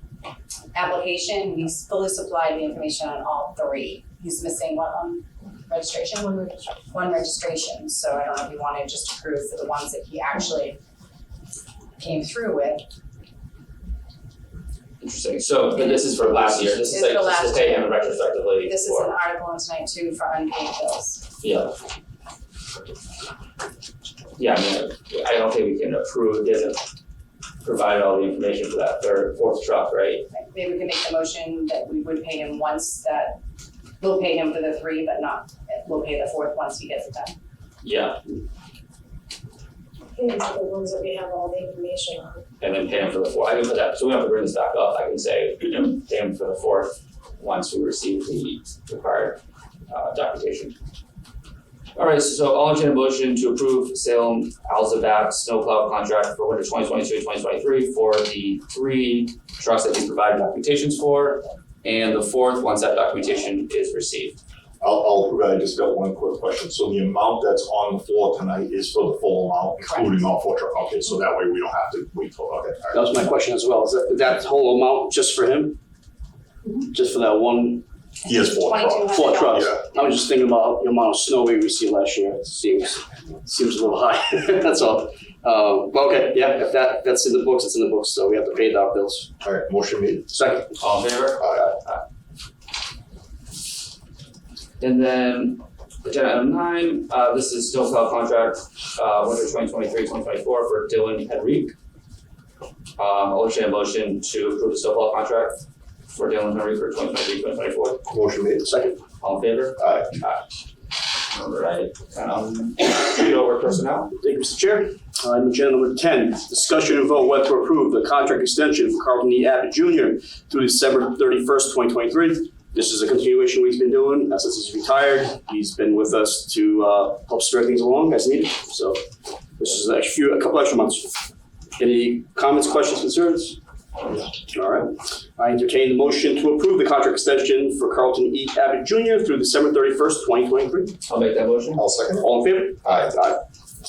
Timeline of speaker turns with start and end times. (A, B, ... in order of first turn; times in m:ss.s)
0:00.7-0:10.8 A
0:12.0-0:12.8 A
0:15.0-0:19.2 B
0:15.8-0:21.2 A
0:21.4-0:21.7 B
0:24.4-0:26.8 B
0:27.6-0:30.2 B
0:30.3-0:33.4 A
0:34.0-0:37.4 A
0:37.8-0:38.2 B
0:40.1-0:42.4 C
0:42.6-0:50.8 B
0:52.0-1:04.4 B
1:04.8-1:13.1 D
1:09.8-1:10.2 A
1:12.9-1:15.8 E
1:16.9-1:17.8 E
1:18.2-1:19.8 D
1:18.3-1:19.9 A
1:19.1-1:29.3 E
1:29.4-1:30.3 D
1:30.3-1:30.7 E
1:30.8-1:32.0 B
1:31.4-1:31.7 D
1:34.8-1:41.7 B
1:43.0-1:48.0 B
1:48.1-1:48.7 D
1:48.6-1:49.0 E
1:49.2-1:50.4 B
1:49.8-1:50.1 D
1:51.3-1:54.1 B
1:54.2-2:09.0 E
2:09.6-2:11.1 E
2:11.8-2:13.6 E
2:14.5-2:20.9 E
2:21.1-2:21.8 B
2:21.8-2:23.2 D
2:22.2-2:23.4 E